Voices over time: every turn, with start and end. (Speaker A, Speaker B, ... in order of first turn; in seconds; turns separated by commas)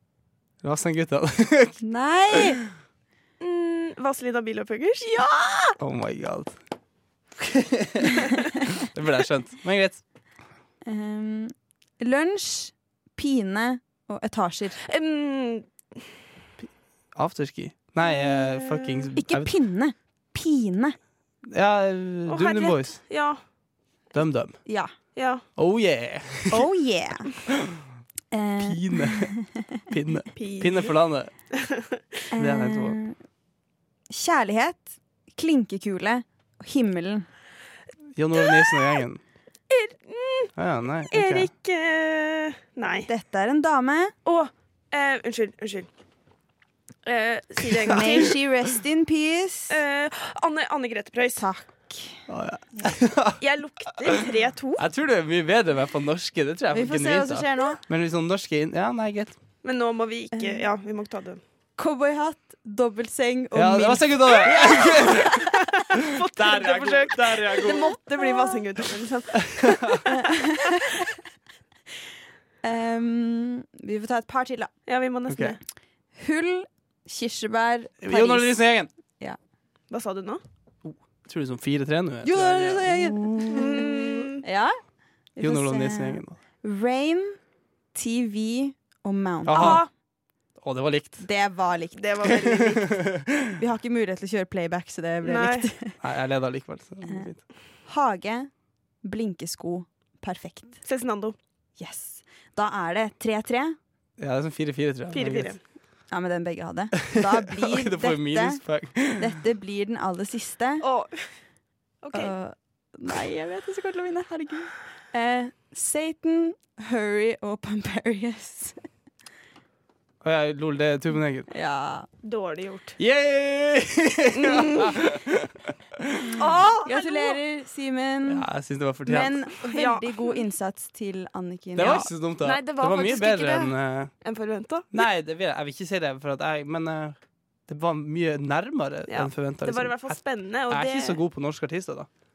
Speaker A: 0.6-2.5, Speaker B: 1.8-2.6, Speaker C: 3.4-5.1, Speaker B: 5.1-5.7, Speaker A: 5.8-6.6, Speaker A: 7.4-10.0, Speaker B: 10.9-14.8, Speaker C: 14.8-16.1, Speaker A: 17.1-19.5, Speaker C: 18.2-19.1, Speaker B: 19.2-21.0, Speaker A: 21.5-23.0, Speaker C: 22.3-23.4, Speaker A: 24.1-24.6, Speaker B: 24.7-24.9, Speaker C: 25.1-25.4, Speaker A: 25.6-26.7, Speaker B: 26.5-27.3, Speaker B: 28.3-29.6, Speaker A: 28.6-29.3, Speaker A: 29.9-31.3, Speaker C: 30.4-30.9, Speaker C: 31.5-32.0, Speaker B: 32.3-33.2, Speaker A: 32.4-33.0, Speaker B: 34.1-37.3, Speaker A: 38.2-39.2, Speaker C: 38.4-39.0, Speaker C: 39.7-40.5, Speaker A: 40.6-41.5, Speaker C: 41.1-43.1, Speaker B: 43.1-44.1, Speaker C: 44.2-45.9, Speaker C: 47.0-48.3, Speaker B: 47.9-49.8, Speaker C: 49.7-51.5, Speaker B: 51.4-52.2, Speaker A: 52.3-53.4, Speaker C: 53.4-54.9, Speaker A: 54.0-54.2, Speaker A: 54.8-59.4, Speaker B: 56.7-57.8, Speaker C: 59.6-61.4, Speaker B: 60.3-60.6, Speaker B: 61.8-65.3, Speaker A: 63.5-65.4, Speaker C: 65.9-70.2, Speaker A: 66.2-67.9, Speaker A: 69.6-70.0, Speaker B: 70.1-70.8, Speaker B: 72.6-74.7, Speaker C: 74.9-75.6, Speaker A: 75.3-75.6, Speaker B: 76.2-78.6, Speaker A: 78.0-78.9, Speaker C: 79.9-80.4, Speaker A: 80.8-83.9, Speaker B: 82.2-84.8, Speaker C: 83.5-84.4, Speaker B: 85.4-87.4, Speaker A: 85.4-86.4, Speaker B: 87.9-89.8, Speaker A: 89.5-89.8, Speaker C: 89.5-89.9, Speaker A: 90.6-91.2, Speaker B: 91.2-92.1, Speaker C: 92.0-92.9, Speaker A: 92.3-93.5, Speaker B: 93.6-96.0, Speaker C: 95.2-95.7, Speaker A: 96.0-97.4, Speaker B: 97.0-97.3, Speaker B: 97.9-98.5, Speaker B: 99.0-100.8, Speaker C: 100.8-101.4, Speaker B: 101.8-103.8, Speaker A: 104.2-105.6, Speaker C: 105.1-105.6, Speaker B: 106.1-110.8, Speaker A: 107.1-109.3, Speaker C: 110.8-111.3, Speaker C: 112.0-112.3, Speaker B: 112.1-118.8, Speaker A: 120.2-121.5, Speaker B: 121.5-122.1, Speaker C: 122.2-123.0, Speaker A: 123.0-126.4, Speaker C: 124.4-124.9, Speaker C: 126.4-127.4, Speaker B: 126.8-128.4, Speaker A: 128.3-129.4, Speaker B: 129.1-132.1, Speaker C: 129.7-130.4, Speaker A: 131.8-134.1, Speaker C: 131.8-135.0, Speaker A: 134.9-142.1, Speaker C: 139.1-141.2